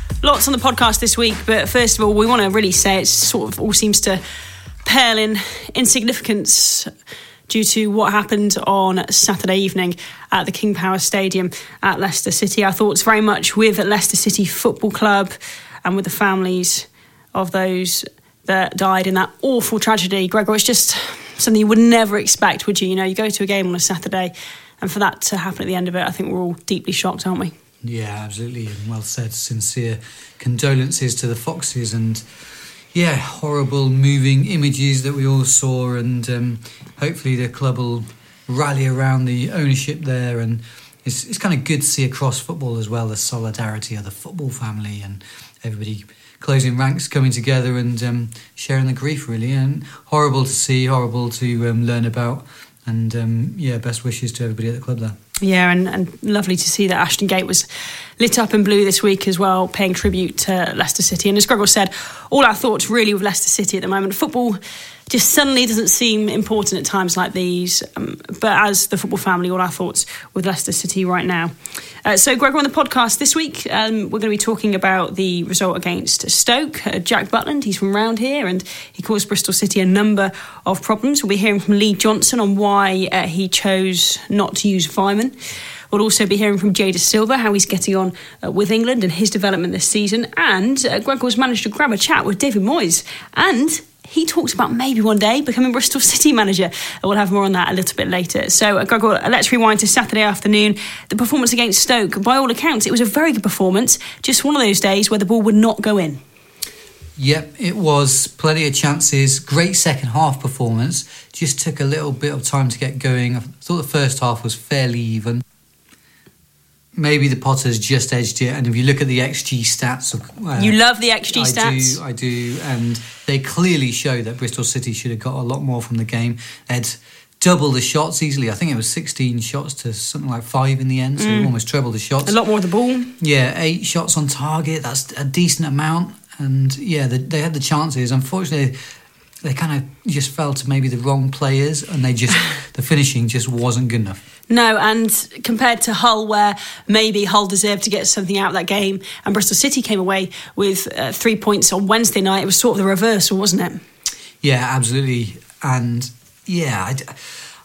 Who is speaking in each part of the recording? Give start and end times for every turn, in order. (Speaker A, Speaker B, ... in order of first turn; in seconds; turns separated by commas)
Speaker A: 0.2-4.2, Speaker A: 4.8-6.9, Speaker A: 7.5-27.5, Speaker B: 27.8-32.2, Speaker B: 32.9-55.2, Speaker A: 55.4-57.7, Speaker A: 58.2-71.5, Speaker A: 72.0-85.3, Speaker A: 85.9-106.2, Speaker B: 107.2-115.4, Speaker B: 117.0-120.8, Speaker A: 120.6-122.0, Speaker B: 121.3-132.4, Speaker A: 131.2-131.5, Speaker A: 132.2-133.1, Speaker B: 133.2-138.8, Speaker B: 139.4-144.2, Speaker A: 144.5-153.8, Speaker B: 154.4-157.2